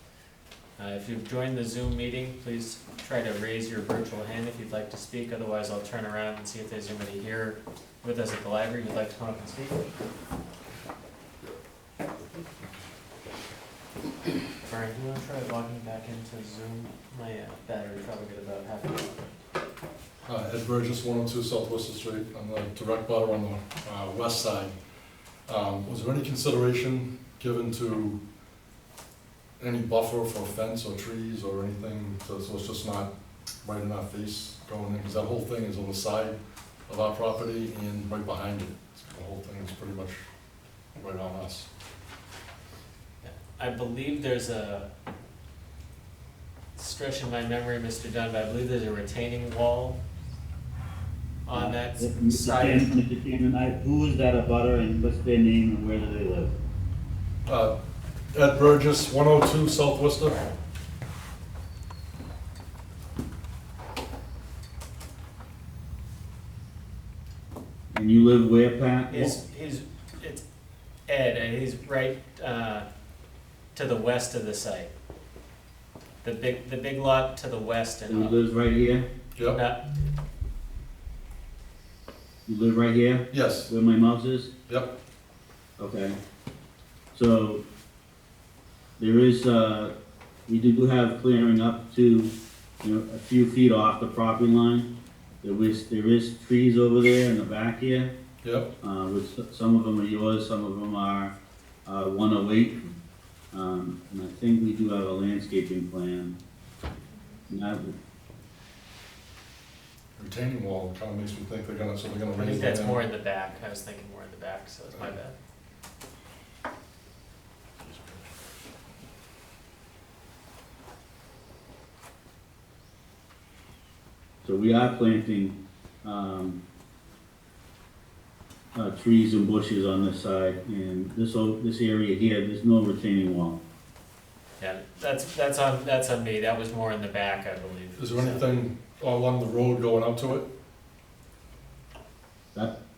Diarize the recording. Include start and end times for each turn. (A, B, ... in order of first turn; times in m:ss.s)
0:00.8-0:09.8 A
0:14.6-0:19.3 A
0:20.2-0:24.7 B
0:25.4-0:28.2 B
0:29.6-0:40.2 B
0:41.0-0:41.7 B
0:43.2-0:44.9 A
0:46.8-0:50.0 A
0:51.4-0:52.9 A
0:51.5-0:56.6 C
0:57.4-0:57.7 B
0:58.3-1:00.5 B
1:07.9-1:09.4 C
1:09.1-1:10.4 A
1:11.1-1:12.9 A
1:13.7-1:14.9 A
1:16.2-1:18.4 A
1:18.1-1:19.0 C
1:19.4-1:19.6 B
1:19.5-1:20.1 A
1:22.4-1:24.5 C
1:23.3-1:23.7 B
1:24.7-1:25.0 B
1:25.8-1:26.2 C
1:27.1-1:27.6 C
1:29.0-1:29.9 C
1:30.5-1:34.9 C
1:35.4-1:38.1 C
1:38.4-1:38.7 B
1:38.8-1:41.3 C
1:41.8-1:42.9 C
1:43.5-1:46.4 C
1:47.5-1:47.9 C
1:50.2-1:53.0 B
1:52.3-1:55.3 A
2:04.4-2:06.6 C
2:08.7-2:13.6 C
2:14.6-2:18.4 A
2:18.0-2:20.5 B